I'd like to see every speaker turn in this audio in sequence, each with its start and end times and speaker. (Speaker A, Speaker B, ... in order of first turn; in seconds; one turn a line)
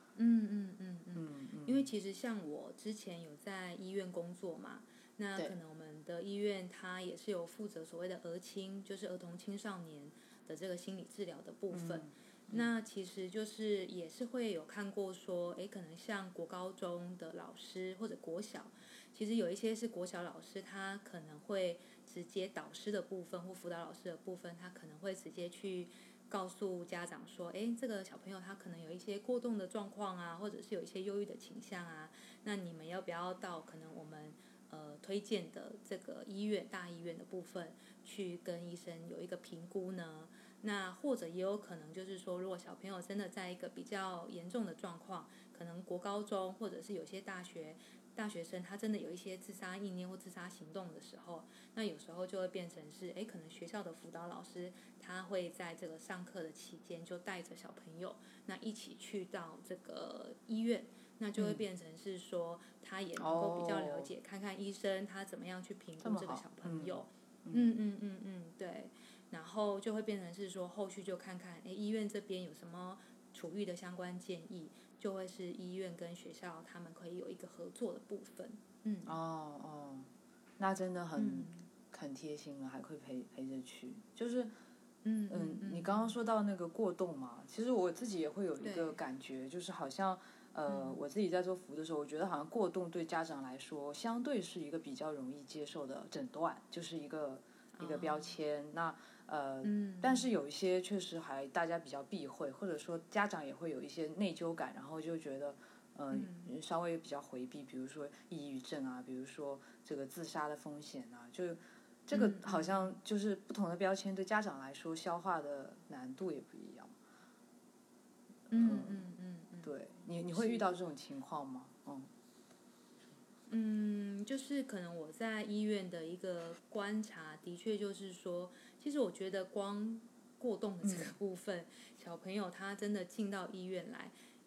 Speaker A: 0.1-79.1
Speaker B: 1.1-1.9
Speaker B: 11.7-12.7
Speaker B: 61.4-61.6
Speaker B: 63.2-64.1
Speaker B: 66.0-67.8
Speaker B: 79.0-84.5
Speaker A: 81.2-81.7
Speaker A: 85.0-86.1
Speaker B: 85.3-116.9
Speaker A: 88.6-89.0
Speaker A: 90.7-91.0
Speaker A: 97.7-98.3
Speaker A: 99.6-100.3
Speaker A: 106.1-106.5
Speaker A: 112.1-112.9
Speaker B: 118.5-119.1
Speaker A: 118.5-119.7
Speaker B: 119.6-122.1
Speaker A: 120.3-120.7
Speaker A: 123.5-134.1
Speaker B: 130.8-131.2